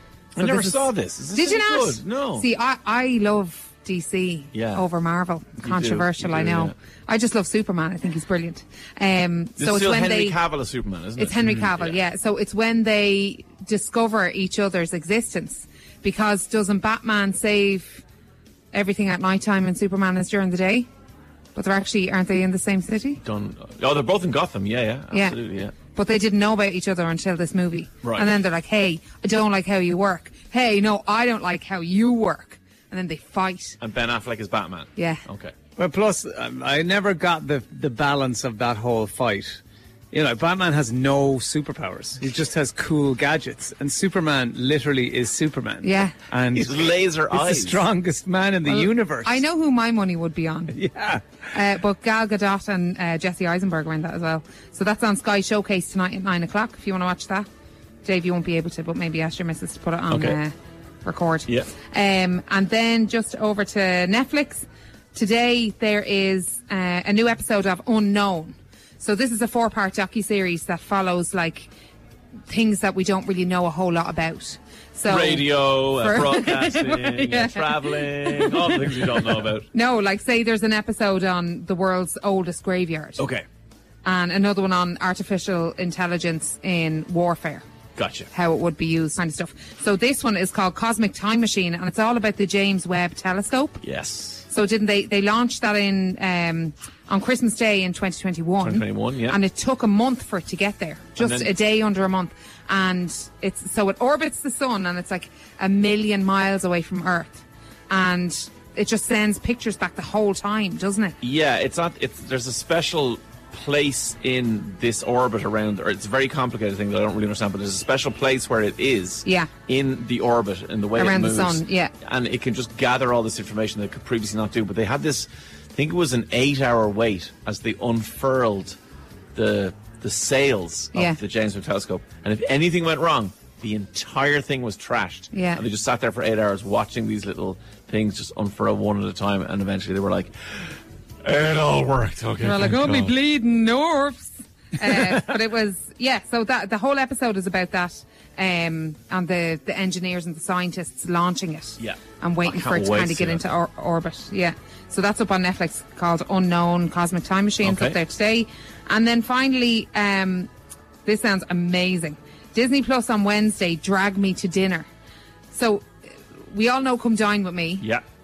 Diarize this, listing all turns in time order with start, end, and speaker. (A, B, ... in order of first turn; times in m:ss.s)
0:00.3-0:02.5 A
0:00.4-0:10.4 B
0:04.5-0:04.8 A
0:05.6-0:06.8 A
0:09.6-0:12.0 A
0:11.2-0:18.0 B
0:18.7-0:20.9 B
0:21.6-0:23.2 B
0:23.2-0:25.8 A
0:25.1-0:33.8 B
0:28.0-0:28.3 A
0:33.8-0:35.5 A
0:35.0-0:35.2 B
0:35.8-0:39.6 C
0:40.1-0:49.4 C
0:45.8-0:46.2 B
0:46.5-0:47.8 A
0:48.7-0:50.8 B
0:50.7-0:51.2 C
0:51.5-0:57.5 B
0:58.0-1:11.7 B
1:00.1-1:00.4 A
1:12.5-1:19.2 B
1:15.0-1:19.7 A
1:19.7-1:23.3 B
1:23.2-1:23.4 A
1:24.0-1:27.6 B
1:28.0-1:28.3 A
1:28.3-1:33.8 B
1:33.8-1:34.4 A
1:34.5-1:51.2 B
1:38.6-1:39.4 A
1:41.2-1:41.5 A
1:51.2-2:08.8 A
1:59.2-1:59.5 B
2:01.0-2:01.9 B
2:09.4-2:23.1 A
2:15.3-2:15.6 B
2:22.4-2:40.5 B
2:31.8-2:33.4 A
2:37.6-2:38.0 A
2:41.0-2:44.9 B
2:45.5-2:45.9 B
2:46.5-2:47.9 B